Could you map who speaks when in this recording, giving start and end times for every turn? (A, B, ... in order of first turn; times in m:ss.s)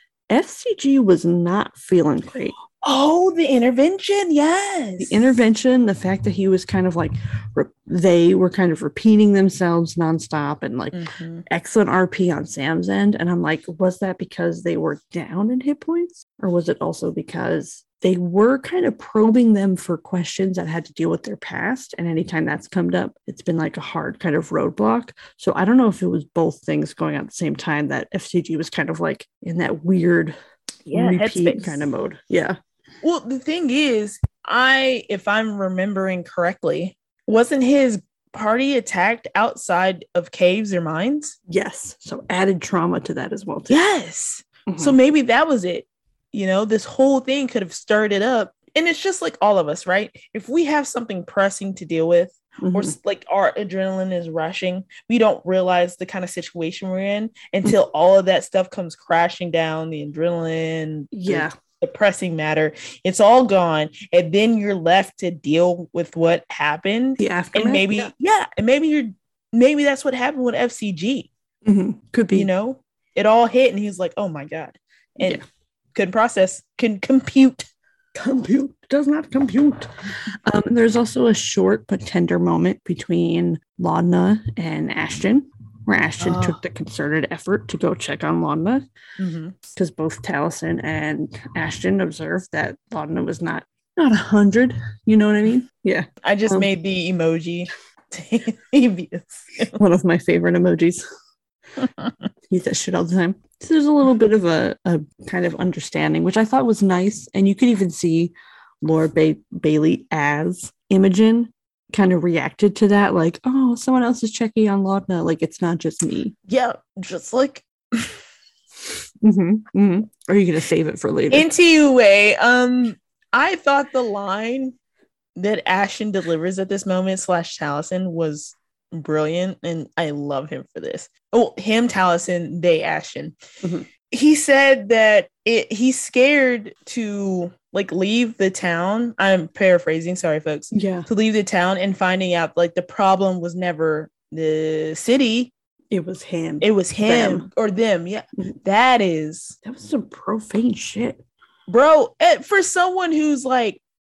0:00.3-0:02.5 A
0:02.8-0:05.3 B
0:05.0-0:30.4 A
0:10.9-0:11.4 B
0:30.9-0:31.8 B
0:30.9-0:32.6 A
0:33.0-0:41.3 B
0:41.5-0:43.8 A
0:43.7-1:11.3 B
0:44.7-0:45.0 A
0:52.6-0:52.9 A
1:01.1-1:01.5 A
1:07.2-1:08.1 A
1:11.6-1:12.5 A
1:12.3-1:15.4 B
1:15.9-1:17.6 B
1:18.1-1:19.9 A
1:20.4-1:28.8 A
1:26.2-1:26.6 B
1:29.2-1:29.6 B
1:29.7-1:36.7 A
1:36.2-1:39.8 B
1:39.8-1:41.0 A
1:42.5-1:56.3 A
1:56.5-1:58.2 B
1:59.2-2:01.5 A
2:01.3-2:04.7 B
2:05.4-2:13.4 B
2:13.6-2:13.9 A
2:14.1-2:25.5 B
2:20.7-2:21.1 A
2:25.9-2:27.5 A
2:26.6-2:29.6 B
2:29.6-2:31.2 A
2:31.7-2:33.8 B